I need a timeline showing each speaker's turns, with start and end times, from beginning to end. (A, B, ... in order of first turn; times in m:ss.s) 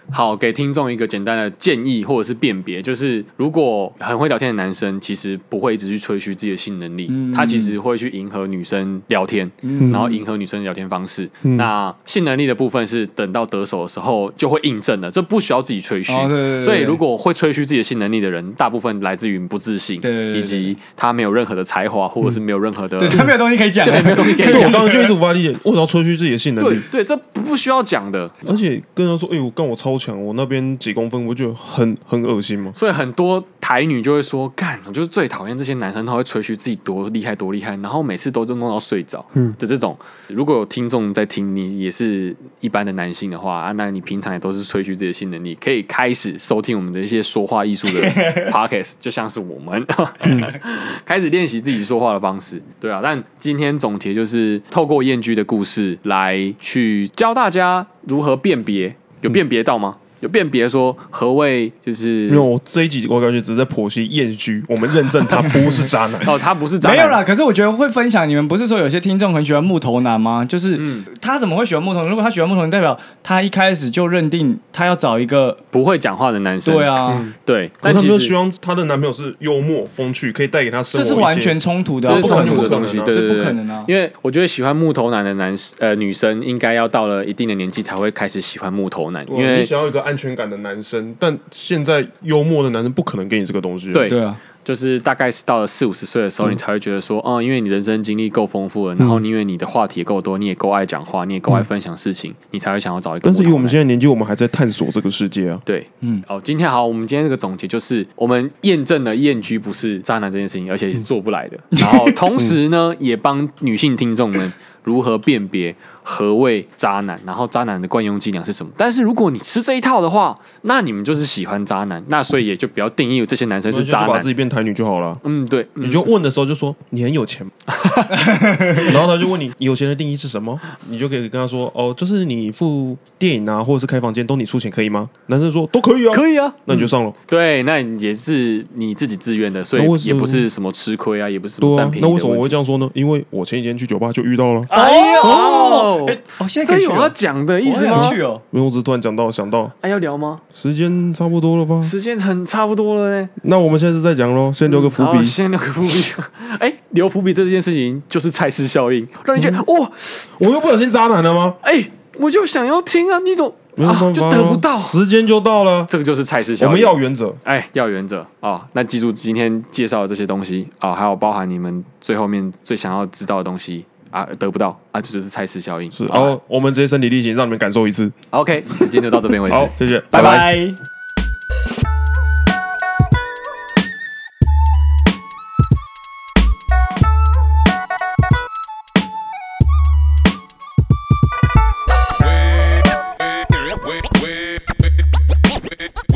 0:00.1-0:23.3 A
0:07.1-0:07.8 B
0:09.6-0:10.2 B
0:09.8-0:10.1 C
0:11.4-0:11.7 C
0:16.1-0:17.0 B
0:20.0-0:20.8 B
0:23.0-0:25.1 B
0:23.8-0:24.8 A
0:24.4-0:26.9 C
0:26.6-0:28.4 A
0:28.4-0:32.8 C
0:32.8-1:02.5 A
0:47.9-0:48.5 B
1:02.3-1:06.4 C
1:05.3-1:05.7 B
1:06.2-1:07.2 A
1:06.8-1:15.6 B
1:10.8-1:11.1 A
1:15.7-1:18.4 A
1:16.6-1:17.3 B
1:17.1-1:23.1 C
1:20.9-1:23.9 B
1:22.1-1:29.7 A
1:29.3-1:34.1 C
1:33.9-1:43.8 A
1:34.1-1:34.4 B
1:43.2-1:45.6 C
1:45.7-2:04.3 A
1:51.7-1:52.2 B
2:03.7-2:05.2 C
2:05.2-2:06.1 A
2:05.8-2:07.5 C
2:07.7-2:08.2 A
2:08.1-2:08.9 B
2:08.8-2:17.2 C
2:16.1-2:22.6 A
2:19.8-2:20.5 C
2:21.6-2:24.7 C
2:24.7-2:28.2 A
2:24.7-2:28.4 B
2:27.9-2:29.8 C
2:29.8-2:30.4 A
2:30.5-2:31.9 C
2:31.8-2:33.3 A
2:33.4-2:35.4 C
2:34.7-2:40.3 A
2:39.4-2:39.6 C
2:40.4-2:41.6 C
2:41.6-2:45.0 A
2:43.8-2:45.9 C
2:45.9-2:56.3 A
2:46.6-2:47.4 C
2:56.0-2:58.2 C
2:58.3-3:00.5 A
2:59.5-3:00.5 C
3:00.1-3:00.8 B